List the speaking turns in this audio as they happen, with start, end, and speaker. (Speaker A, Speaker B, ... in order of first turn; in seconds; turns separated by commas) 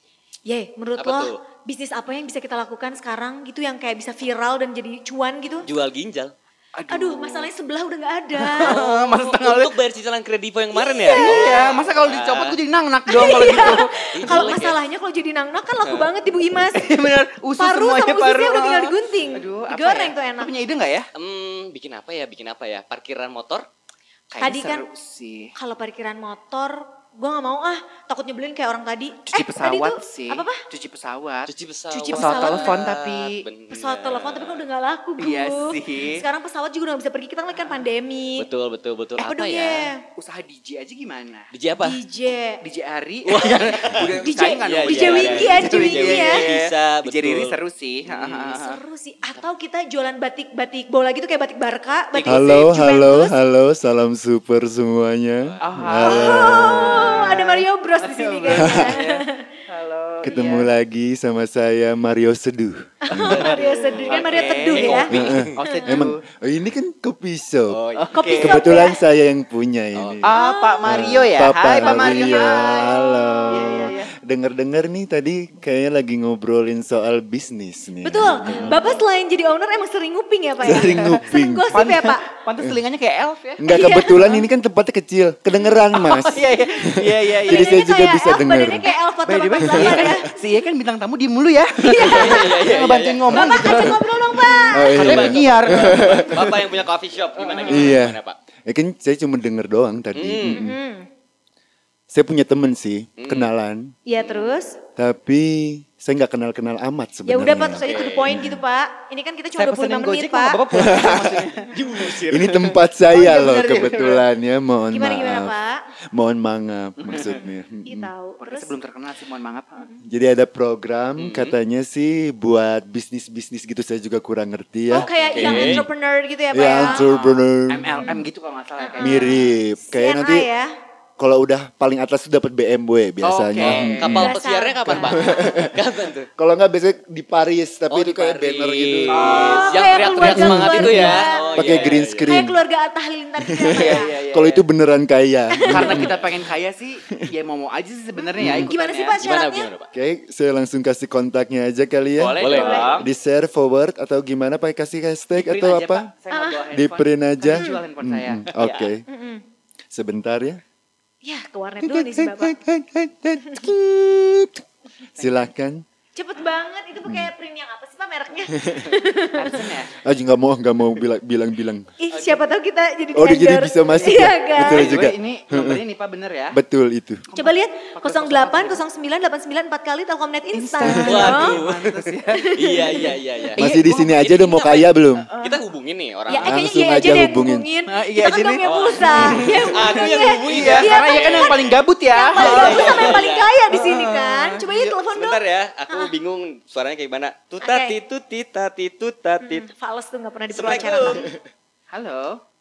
Speaker A: 0.5-5.7, Speaker B: 1.0-1.4, Speaker B: 5.7-6.3, Speaker C: 6.7-7.5, Speaker A: 6.9-8.8, Speaker C: 8.4-9.7, Speaker B: 8.6-12.6, Speaker A: 10.7-11.7, Speaker C: 11.1-14.6, Speaker A: 13.1-16.8, Speaker B: 13.2-14.8, Speaker C: 16.7-21.1, Speaker A: 17.6-20.5, Speaker B: 21.1-23.6, Speaker C: 24.3-25.5, Speaker A: 24.4-24.8, Speaker A: 25.6-30.6, Speaker C: 29.3-31.5, Speaker B: 31.5-34.6, Speaker A: 31.9-32.8, Speaker C: 32.1-33.4, Speaker A: 33.7-38.5, Speaker C: 35.2-36.2, Speaker B: 38.4-39.9, Speaker A: 39.2-40.0, Speaker C: 40.1-41.5, Speaker B: 41.5-42.0, Speaker A: 41.8-42.6, Speaker C: 42.6-48.8, Speaker B: 43.2-48.5, Speaker A: 44.2-46.4, Speaker A: 48.5-53.3, Speaker C: 52.1-52.6, Speaker D: 52.2-57.1, Speaker C: 55.6-60.7, Speaker A: 56.0-59.5, Speaker D: 58.5-58.9, Speaker D: 60.2-63.6, Speaker A: 63.0-65.9, Speaker C: 63.1-66.2, Speaker B: 64.1-65.5, Speaker D: 65.1-67.8, Speaker B: 67.7-68.0, Speaker C: 68.0-68.8, Speaker A: 68.1-69.0, Speaker D: 68.3-78.8, Speaker B: 69.9-70.2, Speaker C: 70.2-72.9, Speaker A: 70.3-71.0, Speaker A: 71.8-73.9, Speaker C: 73.5-74.1, Speaker A: 78.0-82.3, Speaker D: 80.6-81.9, Speaker C: 80.7-81.2, Speaker C: 81.7-83.7, Speaker D: 83.6-88.9, Speaker A: 83.7-84.4, Speaker C: 85.9-87.8, Speaker A: 87.5-90.3, Speaker C: 89.2-96.5, Speaker D: 89.6-90.2, Speaker A: 91.8-92.5, Speaker B: 92.1-93.9, Speaker A: 93.3-94.9, Speaker D: 94.7-96.6, Speaker B: 94.9-98.4, Speaker C: 97.4-97.8, Speaker D: 97.7-100.8, Speaker B: 100.1-100.7, Speaker A: 100.5-101.1, Speaker D: 102.1-103.9, Speaker B: 103.2-103.5, Speaker A: 104.0-104.8, Speaker D: 105.0-108.6, Speaker A: 107.3-110.6, Speaker B: 107.8-108.3, Speaker C: 109.6-111.7, Speaker D: 110.7-111.4, Speaker B: 111.7-112.8, Speaker D: 112.0-115.5, Speaker C: 113.1-114.2, Speaker A: 114.9-115.8, Speaker D: 116.1-118.1, Speaker C: 117.0-117.4, Speaker A: 117.8-118.7, Speaker C: 118.4-119.8, Speaker D: 120.0-125.9, Speaker B: 121.2-121.5, Speaker A: 124.9-127.0, Speaker B: 125.3-125.8, Speaker D: 126.5-128.1, Speaker C: 126.8-129.5, Speaker A: 128.8-130.7, Speaker D: 129.0-130.5, Speaker D: 131.2-134.3, Speaker C: 133.2-134.2, Speaker B: 133.6-136.3, Speaker A: 134.0-135.4, Speaker D: 134.9-135.7, Speaker D: 136.4-142.6, Speaker B: 137.9-142.3, Speaker C: 139.1-139.8, Speaker A: 139.2-144.1, Speaker D: 143.4-146.3, Speaker C: 143.7-144.6, Speaker A: 145.5-146.1, Speaker C: 145.7-149.2, Speaker A: 148.2-149.7, Speaker D: 148.4-148.7, Speaker B: 149.2-149.9, Speaker D: 149.9-156.1, Speaker C: 152.2-153.1, Speaker B: 152.4-153.0, Speaker A: 152.6-153.0, Speaker C: 155.3-158.9, Speaker A: 156.3-156.6, Speaker D: 156.7-159.0, Speaker A: 157.5-157.8, Speaker A: 159.1-159.4, Speaker D: 159.9-160.6, Speaker A: 161.2-162.6, Speaker D: 161.8-164.6, Speaker D: 165.2-165.8, Speaker A: 166.1-169.6, Speaker D: 168.6-168.9, Speaker C: 169.3-169.9, Speaker D: 170.0-171.9, Speaker A: 172.0-174.9, Speaker C: 172.1-172.4, Speaker D: 173.1-175.8, Speaker C: 174.1-176.6, Speaker D: 176.5-177.2, Speaker C: 177.3-178.8, Speaker A: 177.3-181.6, Speaker C: 180.5-184.2, Speaker D: 180.8-181.2, Speaker B: 181.0-182.0, Speaker A: 182.3-183.1, Speaker B: 182.6-186.5, Speaker D: 183.5-185.3, Speaker C: 185.2-185.6, Speaker A: 186.3-196.1, Speaker D: 186.4-187.7, Speaker C: 187.9-194.9, Speaker B: 188.6-191.8, Speaker B: 192.3-193.5, Speaker B: 195.1-199.7, Speaker A: 197.6-198.0, Speaker A: 199.4-201.3, Speaker B: 200.5-201.3, Speaker C: 201.9-202.4